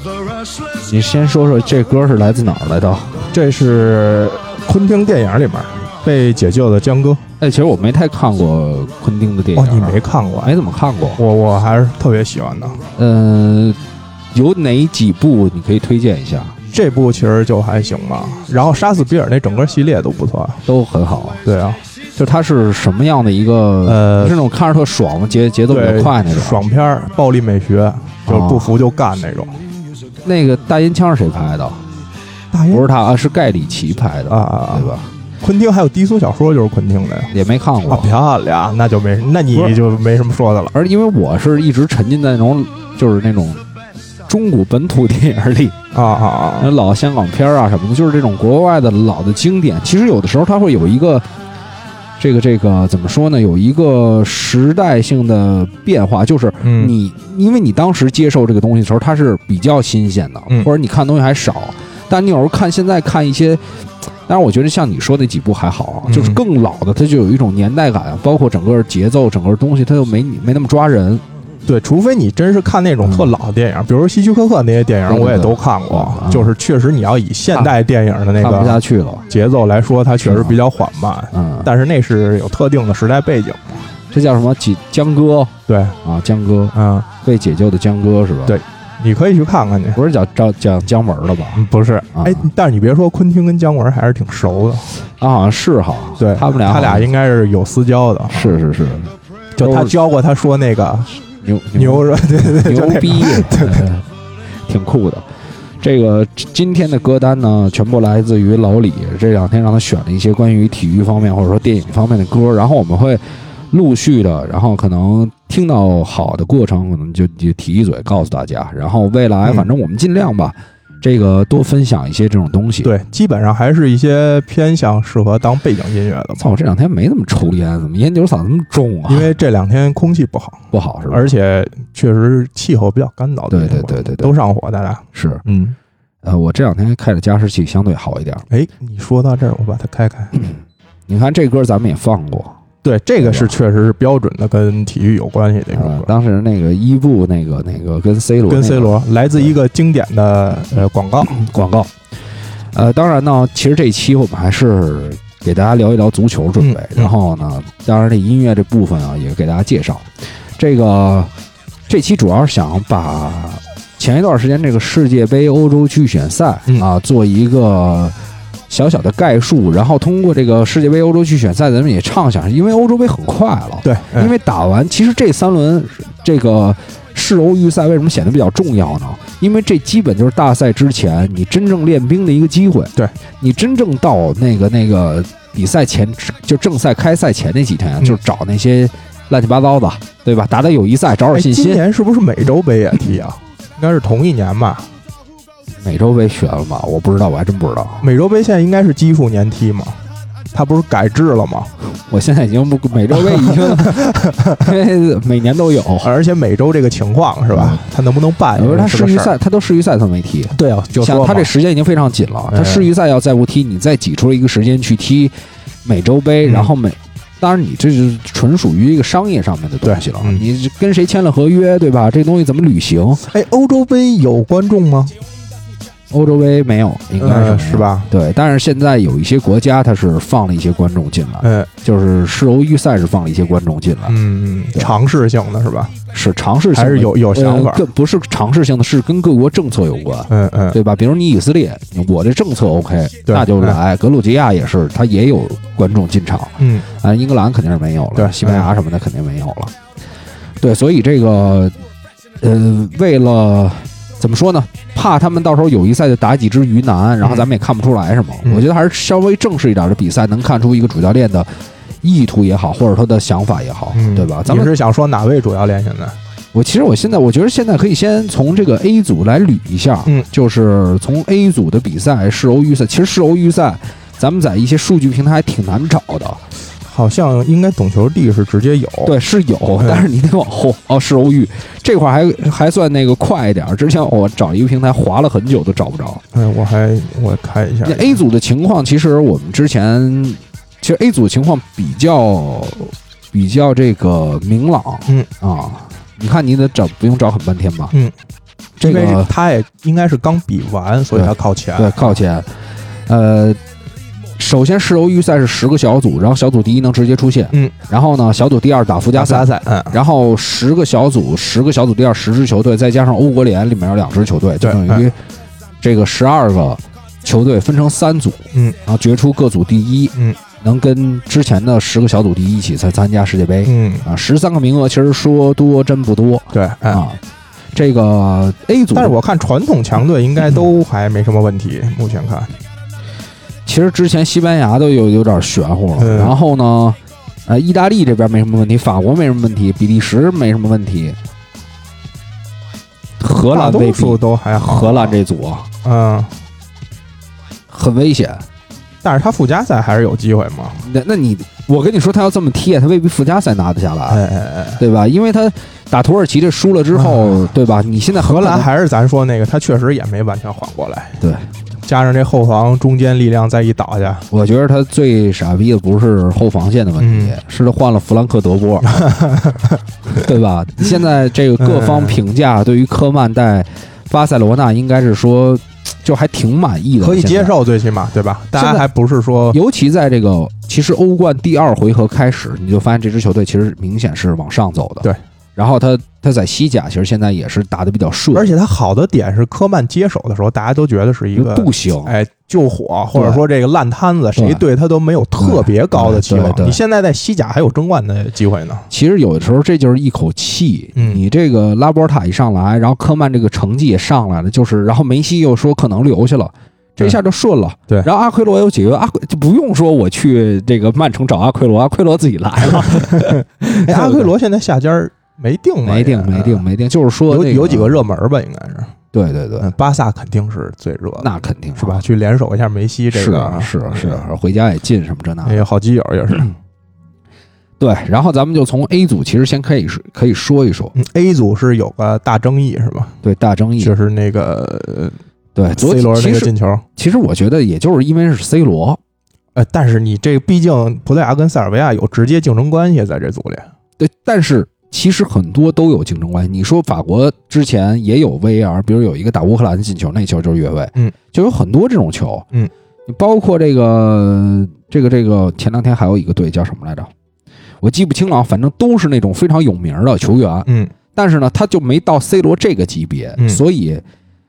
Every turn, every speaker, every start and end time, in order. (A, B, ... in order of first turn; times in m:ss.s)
0:00.8-0:03.2 A
0:03.3-0:07.2 B
0:07.4-0:11.2 A
0:09.6-0:10.6 B
0:11.2-0:12.8 B
0:13.0-0:13.8 A
0:14.3-0:16.6 A
0:16.7-0:20.6 B
0:20.7-0:21.4 A
0:21.4-0:21.8 B
0:22.2-0:26.6 A
0:23.8-0:24.4 B
0:25.7-0:29.6 B
0:28.3-0:28.7 A
0:30.2-0:31.8 A
0:32.5-0:32.9 B
0:32.7-0:35.1 A
0:34.3-0:37.3 B
0:37.3-0:38.1 A
0:37.9-0:40.7 B
0:40.7-0:43.6 A
0:44.3-0:45.8 A
0:45.9-0:46.7 B
0:46.6-0:51.3 A
0:52.2-1:03.6 A
0:56.6-0:56.9 B
1:04.3-1:11.2 A
1:06.1-1:06.4 B
1:11.7-1:23.9 B
1:13.0-1:13.3 A
1:15.1-1:16.5 A
1:18.4-1:19.2 A
1:20.2-1:20.6 A
1:21.3-1:21.7 A
1:24.1-1:28.6 A
1:25.7-1:26.0 B
1:26.7-1:27.1 B
1:28.5-1:30.0 B
1:30.0-1:31.6 A
1:31.6-1:34.9 B
1:32.2-1:32.5 A
1:35.2-1:37.1 A
1:36.2-1:38.6 B
1:38.3-1:39.9 A
1:39.6-1:41.1 B
1:41.4-1:44.1 A
1:41.8-1:43.9 B
1:44.7-1:45.3 A
1:45.8-2:02.9 A
2:02.8-2:06.5 B
2:06.4-2:09.3 A
2:09.1-2:15.8 B
2:10.7-2:11.3 A
2:13.5-2:14.3 A
2:15.1-2:15.4 A
2:16.2-2:18.4 A
2:18.5-2:20.3 B
2:20.3-2:22.6 A
2:22.8-2:26.1 B
2:23.2-2:23.5 A
2:25.7-2:29.0 A
2:28.5-2:31.4 B
2:31.2-2:31.9 A
2:32.7-2:41.3 A
2:36.6-2:37.1 B
2:41.9-2:48.2 A
2:48.7-3:11.8 A
2:53.8-2:54.3 B
3:11.3-3:14.9 B
3:15.8-3:18.1 A
3:18.0-3:20.0 B
3:20.5-3:21.7 B
3:21.9-3:26.1 A
3:23.1-3:24.7 B
3:26.0-3:29.3 B
3:27.5-3:27.8 A
3:28.6-3:35.3 A
3:30.5-3:31.5 B
3:32.5-3:32.9 B
3:35.8-3:43.2 A
3:36.4-3:36.7 B
3:39.8-3:40.4 B
3:43.3-3:45.1 B
3:46.1-3:54.2 A
3:47.2-3:48.1 B
3:51.4-3:51.7 B
3:54.1-3:55.9 B
3:56.1-4:09.7 A
3:56.7-3:57.8 B
4:00.3-4:00.8 B
4:03.3-4:03.8 B
4:06.6-4:06.8 B
4:08.2-4:08.7 B
4:10.6-4:11.7 A
4:12.4-4:21.5 A
4:17.2-4:17.5 B
4:22.0-4:24.7 A
4:23.9-4:26.2 B
4:26.5-4:36.4 A
4:36.8-4:39.1 B
4:39.0-4:46.2 A
4:39.8-4:40.1 B
4:46.3-4:48.2 B
4:47.8-4:58.0 A
4:58.8-4:59.3 A
4:58.8-5:02.2 B
5:01.2-5:02.5 A
5:03.1-5:03.6 A
5:04.4-5:15.2 A
5:09.1-5:10.0 B
5:14.6-5:15.1 B
5:15.8-5:27.2 A
5:23.6-5:24.1 B
5:26.5-5:27.0 B
5:27.7-5:29.2 A
5:28.9-5:32.6 B
5:33.7-5:41.2 A
5:36.0-5:36.4 B
5:43.2-5:45.7 A
5:43.5-5:45.2 B
5:45.8-5:46.3 B
5:47.7-5:48.4 A
5:49.0-5:50.8 B
5:50.8-5:54.2 A
5:54.1-5:54.8 B
5:54.8-5:58.7 A
5:56.9-5:57.5 B
5:58.1-6:01.2 B
6:01.2-6:01.5 A
6:01.8-6:04.3 B
6:04.3-6:09.1 A
6:07.0-6:07.4 B
6:08.8-6:10.3 B
6:10.1-6:17.5 A
6:11.6-6:12.2 B
6:17.0-6:19.6 B
6:18.6-6:18.8 A
6:19.5-6:28.5 A
6:28.3-6:38.9 B
6:31.4-6:32.1 A
6:33.2-6:33.4 A
6:34.4-6:34.6 A
6:35.4-6:36.8 A
6:38.9-6:54.3 A
6:41.0-6:41.2 B
6:53.2-6:56.6 B
6:55.8-6:58.0 A
6:57.3-6:58.9 B
6:59.1-6:59.7 A
6:59.6-7:04.3 B
7:01.2-7:02.0 A
7:03.1-7:05.6 A
7:05.4-7:06.5 B
7:07.8-7:11.0 A
7:11.0-7:13.2 B
7:13.2-7:13.9 A
7:13.8-7:15.2 B
7:15.6-7:19.0 A
7:15.7-7:16.8 B
7:19.6-7:23.7 B
7:24.0-7:32.5 A
7:33.1-7:37.1 A
7:37.8-7:44.0 A
7:40.7-7:40.9 B